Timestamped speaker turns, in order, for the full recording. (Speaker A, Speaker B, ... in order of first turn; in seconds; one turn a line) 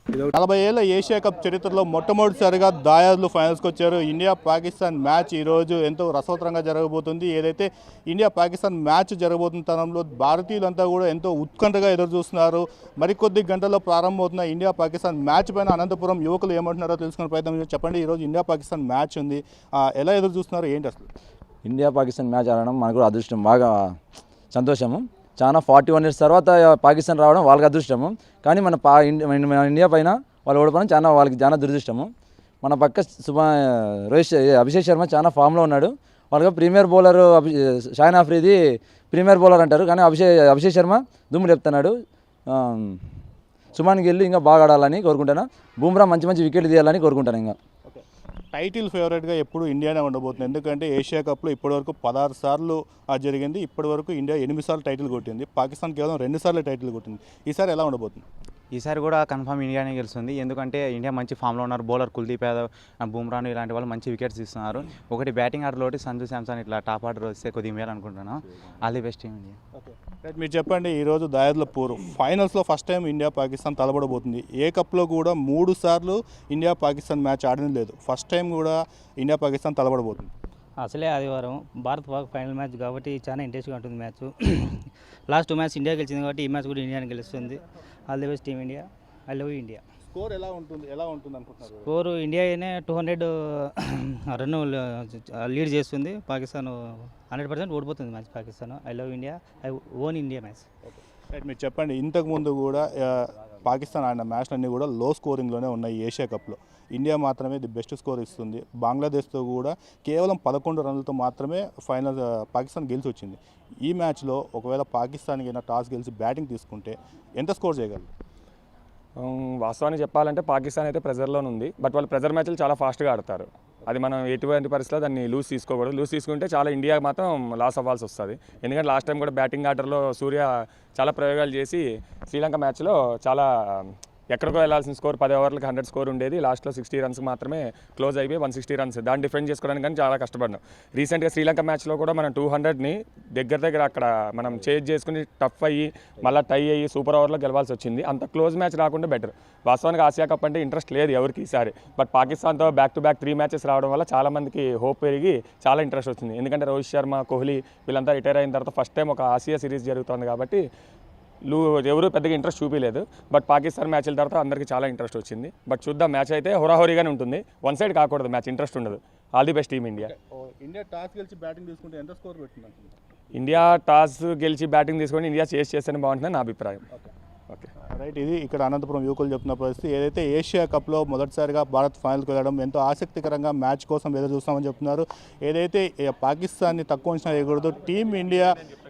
Speaker A: 0.3-21.1
Speaker B: 21.6-23.9
Speaker B: 24.5-32.1
Speaker B: 32.6-38.6
Speaker B: 39.1-41.9
Speaker B: 42.5-43.0
Speaker B: 43.7-47.6
Speaker A: 47.9-58.2
Speaker C: 58.7-69.6
Speaker A: 69.8-80.3
Speaker D: 80.8-89.8
Speaker A: 90.1-91.8
Speaker D: 91.8-100.6
Speaker A: 100.9-118.1
Speaker E: 119.2-160.6
Speaker E: 161.5-170.1
Speaker A: 170.0-172.9
Speaker E: 173.3-176.8
Speaker A: 177.9-188.5